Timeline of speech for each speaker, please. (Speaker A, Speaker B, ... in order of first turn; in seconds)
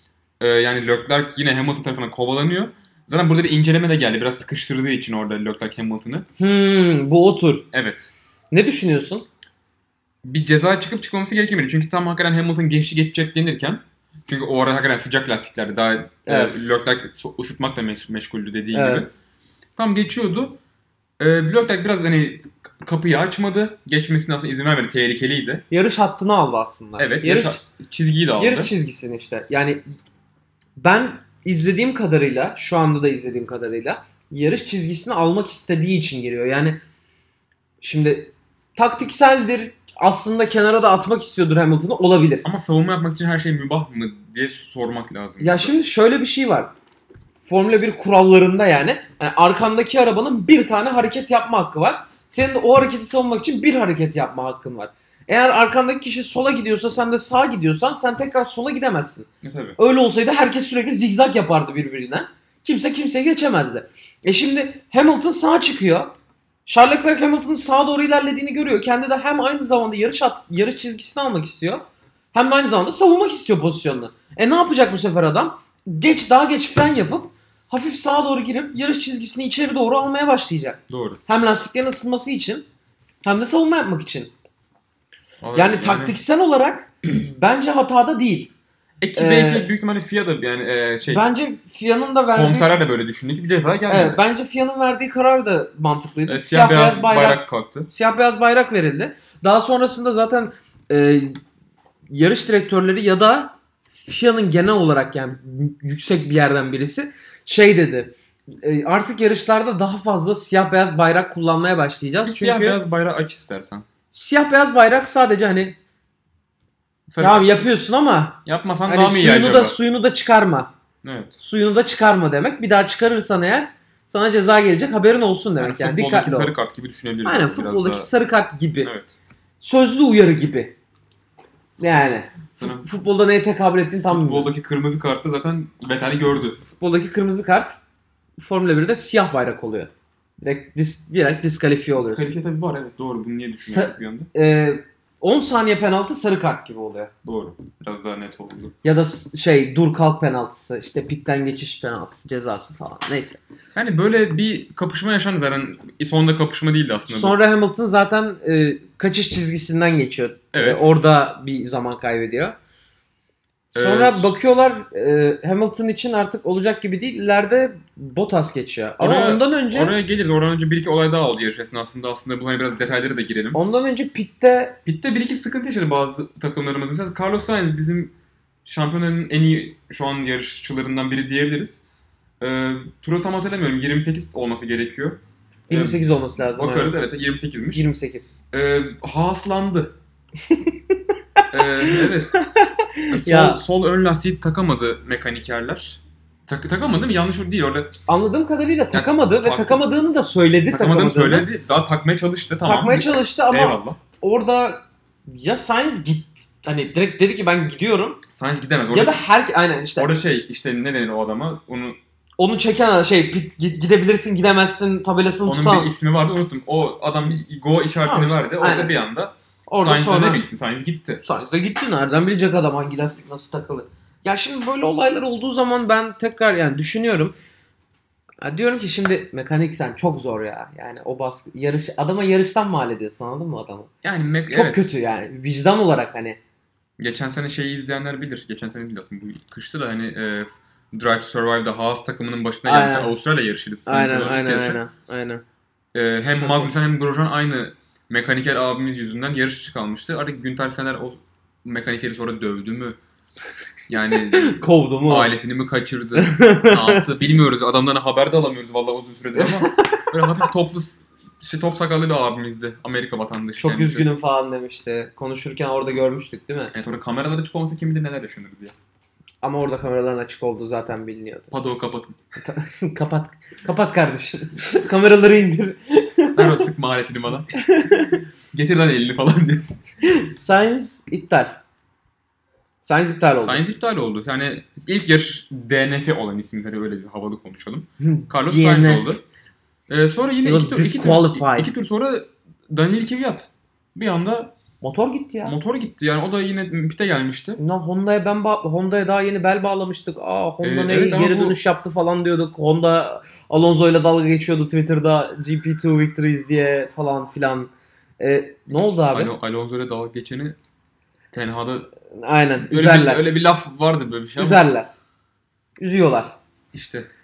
Speaker A: 0.4-6.2, 7.7-8.1, 10.2-19.1, 19.8-20.6, 21.2-25.6, 27.0-28.7, 42.4-45.7, 59.4-59.8, 80.9-81.2, 85.4-86.2, 89.0-91.2, 92.3-94.2, 96.3-97.9, 112.2-113.8, 117.1-117.6, 118.5-119.8, 121.0-121.4, 125.6-128.1, 128.8-129.2, 132.6-132.9, 134.1-136.6, 142.0-144.3, 147.2-148.7, 153.7-157.4, 160.5-160.9, 163.7-164.4, 169.0-173.6, 174.8-178.1, 178.6-181.8, 182.4-187.9, 188.5-189.9, 191.5-192.4, 193.1-197.9, 198.9-199.8, 200.7-204.0, 208.3-209.2, 209.9-212.0, 215.4-221.2, 234.0-234.9, 237.0-244.8, 245.9-253.0, 253.9-264.1, 266.7-268.7, 271.5-272.2, 276.3-277.5, 278.5-279.7, 283.4-289.2, 289.9-294.5, 295.4-297.6, 300.6-301.6, 309.1-310.6, 311.3-311.9, 312.6-314.6, 316.7-317.1
Speaker B: 6.4-7.7, 8.5-9.3, 16.3-16.6, 18.7-19.1, 25.7-27.6, 28.4-29.8, 30.8-36.8, 37.8-42.4, 45.4-46.7, 47.4-66.1, 66.7-82.7, 83.2-84.3, 85.5-88.5, 89.2-89.7, 91.0-92.8, 93.9-101.4, 102.1-112.8, 114.1-115.8, 117.2-120.7, 121.4-126.5, 127.2-128.9, 129.6-130.7, 131.8-134.5, 136.7-137.8, 138.4-142.3, 143.6-147.1, 148.8-153.4, 157.1-162.6, 163.7-169.9, 173.5-174.8, 185.7-187.0, 187.7-188.3, 190.5-193.6, 198.1-201.5, 202.6-208.2, 208.9-210.1, 212.4-215.9, 218.0-218.9, 219.7-220.4, 221.2-227.3, 228.4-233.9, 234.5-236.4, 242.6-243.1, 243.8-245.4, 246.3-246.7, 254.3-255.3, 256.1-257.1, 259.4-260.1, 263.6-266.7, 269.4-271.5, 272.4-276.7, 277.5-278.2, 280.0-281.6, 282.8-283.6, 288.0-289.1, 290.4-291.7, 294.8-295.5, 297.6-309.3, 312.1-313.3, 314.4-314.9, 315.8-316.4